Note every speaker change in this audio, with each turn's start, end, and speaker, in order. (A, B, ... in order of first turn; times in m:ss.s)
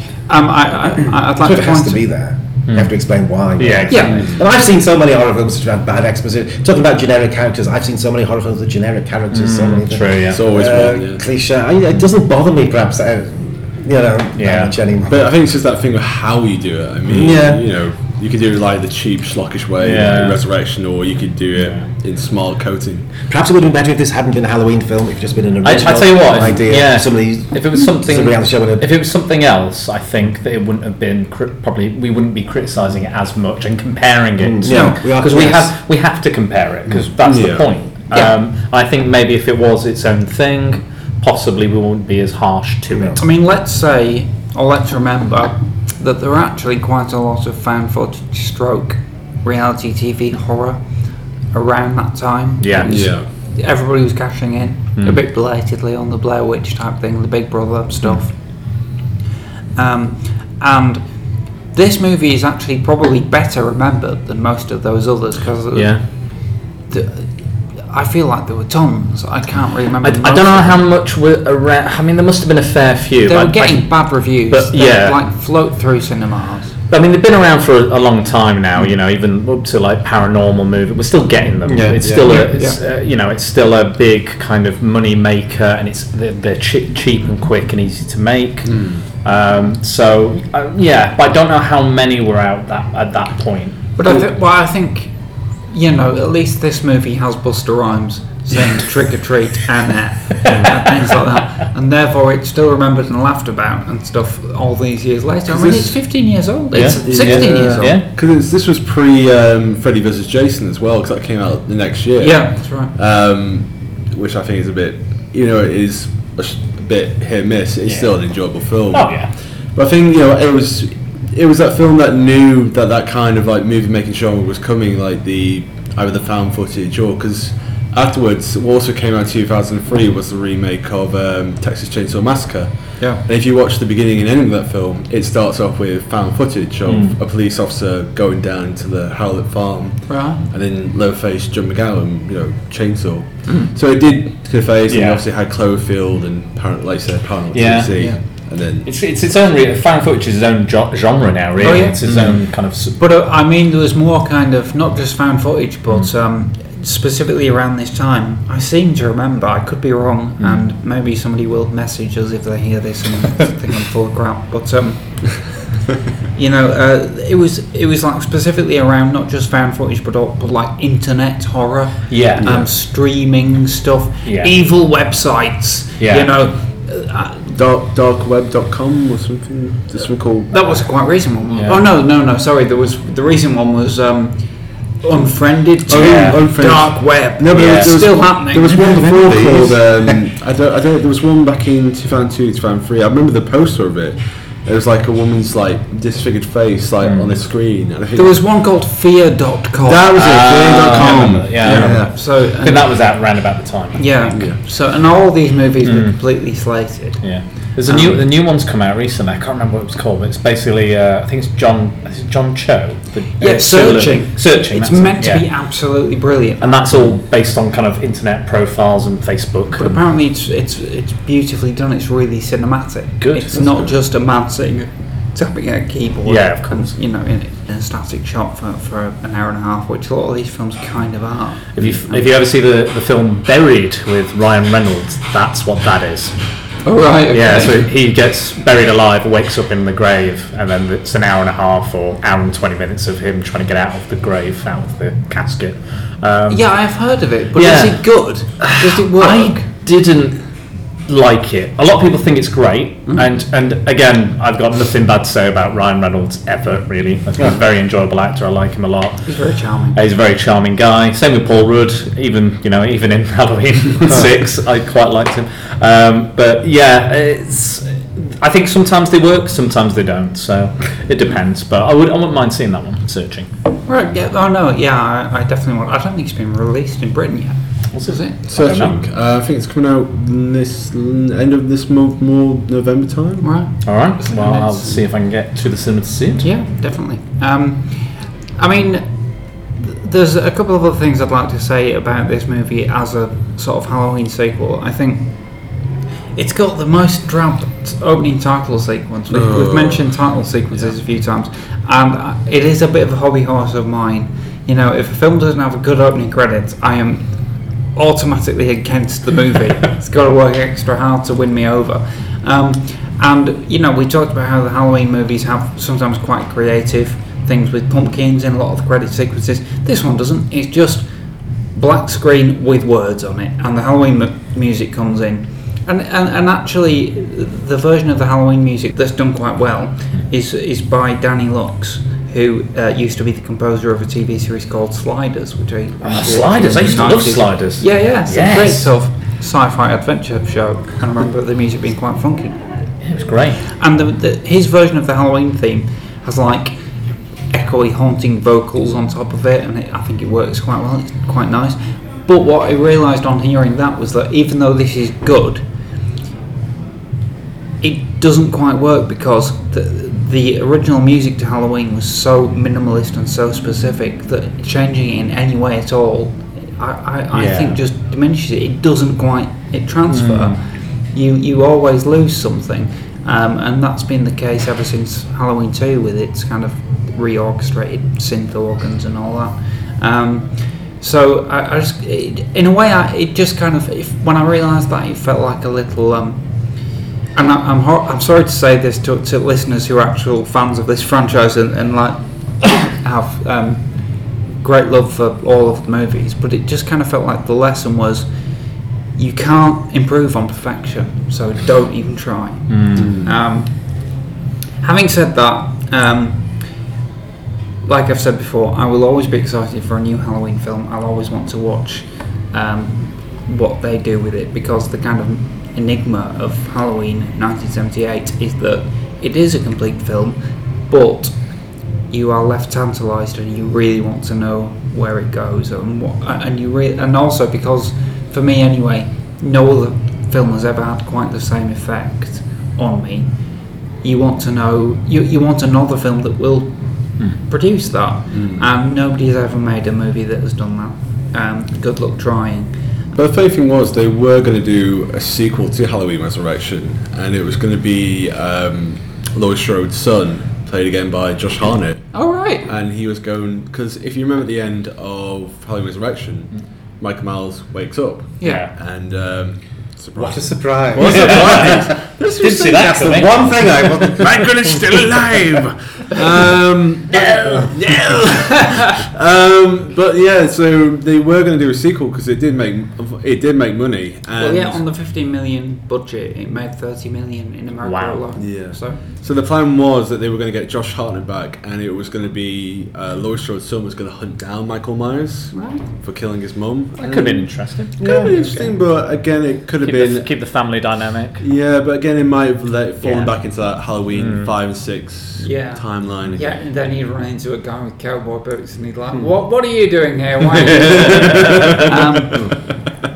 0:00.3-0:02.1 A
0:01.4-0:15.3 B
0:02.7-0:04.4 C
0:03.9-0:04.2 A
0:04.1-0:04.4 D
0:09.3-0:10.8 C
0:10.3-0:11.2 D
0:14.4-0:14.8 C
0:15.1-0:23.2 D
0:17.1-0:17.8 B
0:19.8-0:20.9 C
0:21.6-0:21.9 C
0:23.2-0:28.9 B
0:25.6-0:43.2 C
0:34.4-0:35.8 B
0:34.7-0:35.0 A
0:37.2-0:37.7 D
0:38.1-0:38.4 A
0:42.9-0:43.2 B
0:43.2-0:58.7 A
0:52.6-0:53.2 C
0:52.8-0:53.3 D
0:58.0-0:58.3 C
0:59.8-1:10.8 A
1:05.7-1:06.0 C
1:10.0-1:15.2 C
1:13.2-1:16.8 A
1:16.9-1:33.9 C
1:21.6-1:22.5 B
1:22.0-1:22.4 D
1:22.3-1:22.8 A
1:28.6-1:29.0 D
1:34.0-1:48.0 A
1:45.5-1:46.0 D
1:46.7-1:48.1 C
1:47.0-2:28.9 D
1:52.2-1:52.9 A
1:57.8-1:59.3 C
2:16.8-2:17.2 C
2:20.1-2:20.4 A
2:23.4-2:23.7 A
2:24.9-2:25.2 C
2:27.5-2:33.0 C
2:31.6-2:45.8 A
2:32.0-2:32.4 D
2:40.4-2:40.7 C
2:46.3-2:57.5 A
2:52.1-2:52.7 C
2:54.2-2:54.5 C
2:56.0-2:56.4 C
2:57.5-3:00.8 D
3:00.5-3:09.4 A
3:01.5-3:01.8 C
3:05.9-3:06.9 C
3:05.9-3:18.4 D
3:07.4-3:10.2 B
3:07.5-3:08.1 C
3:17.0-3:17.4 C
3:18.2-3:23.4 A
3:19.8-3:22.2 D
3:20.2-3:25.1 C
3:24.0-3:28.3 A
3:24.3-3:24.6 D
3:25.8-3:26.6 C
3:27.2-3:36.0 C
3:33.4-3:37.1 A
3:36.6-3:40.0 C
3:39.8-3:52.2 A
3:43.2-3:43.9 C
3:46.2-3:46.9 C
3:51.8-4:07.0 C
3:56.8-3:57.9 A
4:06.5-4:09.6 A
4:07.5-4:33.5 C
4:19.3-4:20.0 A
4:33.8-4:38.4 A
4:37.9-4:39.0 C
4:38.5-4:43.7 D
4:43.4-4:45.0 A
4:43.8-4:46.5 C
4:46.4-5:43.1 A
4:59.3-5:00.1 D
5:36.0-5:38.9 C
5:43.0-5:43.7 C
5:43.7-5:55.7 A
5:57.8-6:46.9 A
6:07.3-6:07.8 C
6:10.1-6:10.6 C
6:42.7-6:43.2 C
6:43.0-6:43.4 D
6:47.8-7:22.9 A
7:18.3-7:18.7 D
7:23.1-7:43.2 D
7:32.1-7:32.7 A
7:38.4-7:38.7 A
7:38.4-7:38.7 C
7:40.2-7:44.8 B
7:41.0-7:44.3 C
7:44.2-7:48.6 D
7:47.1-7:47.8 C
7:47.7-7:48.8 A
7:49.1-7:54.8 D
7:54.4-7:59.0 A
7:57.8-7:58.5 C
7:58.4-8:16.9 D
8:05.5-8:05.9 A
8:07.0-8:08.1 C
8:08.0-8:08.8 A
8:08.0-8:08.3 B
8:09.8-8:11.4 C
8:13.0-8:14.6 C
8:15.4-8:22.8 A
8:20.7-8:21.5 D